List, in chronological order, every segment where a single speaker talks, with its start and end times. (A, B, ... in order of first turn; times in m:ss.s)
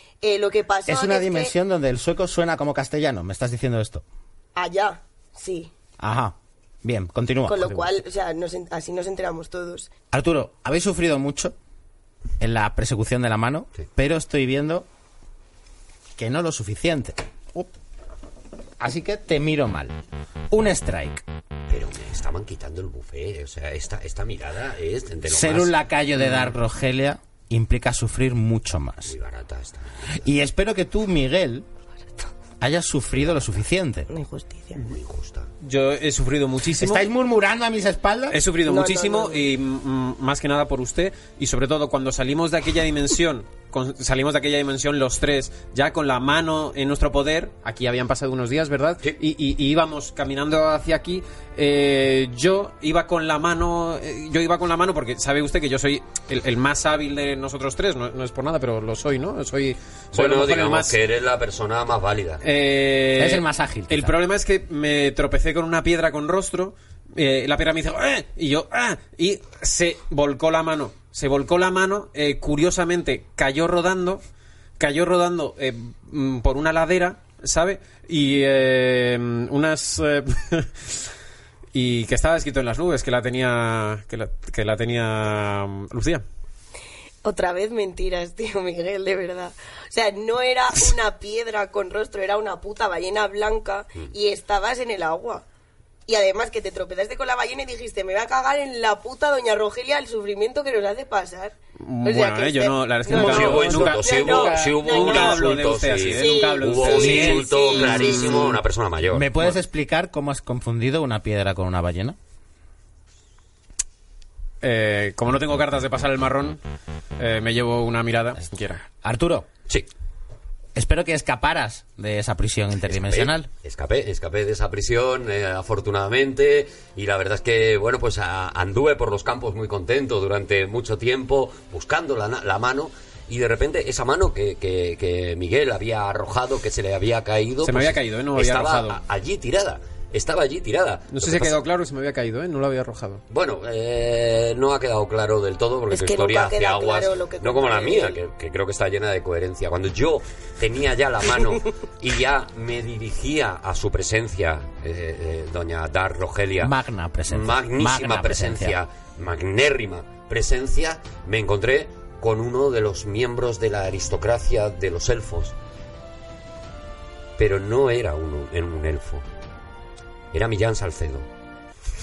0:00.2-0:01.5 A
0:00.9-0:04.0 B
0:04.5-0:05.7 A
0:06.0-0:07.8 B
0:07.4-0:09.9 A
0:10.1-0:11.5 B
0:12.4-0:14.8 B
0:16.2-0:17.7 B
0:18.8-0:19.9 B
0:20.5-0:21.2 B
0:21.7-0:25.7 C
0:25.3-0:29.1 B
0:29.1-0:30.2 C
0:30.1-0:31.6 B
0:32.6-0:34.1 B
0:33.2-0:33.4 C
0:34.1-0:34.8 A
0:34.7-0:35.5 C
0:35.6-0:37.1 D
0:36.8-0:38.4 B
0:38.3-1:00.9 D
0:38.6-0:39.4 A
1:00.1-1:02.4 C
1:02.4-1:14.2 D
1:03.2-1:04.1 B
1:14.8-1:21.0 D
1:21.7-1:26.2 D
1:27.2-1:35.4 A
1:36.1-1:48.6 A
1:41.8-1:48.5 D
1:43.1-1:49.3 C
1:43.2-1:43.7 B
1:47.0-1:47.5 B
1:49.1-1:52.2 B
1:54.6-1:56.6 D
1:57.2-1:58.8 D
1:59.0-1:59.5 B
2:00.7-2:03.5 B
2:02.9-2:21.6 C
2:17.6-2:19.0 D
2:21.1-2:23.2 D
2:23.3-2:36.7 C
2:25.9-2:28.2 A
2:36.6-2:38.8 B
2:37.3-2:45.5 C
2:47.4-2:49.2 C
2:50.3-2:51.2 C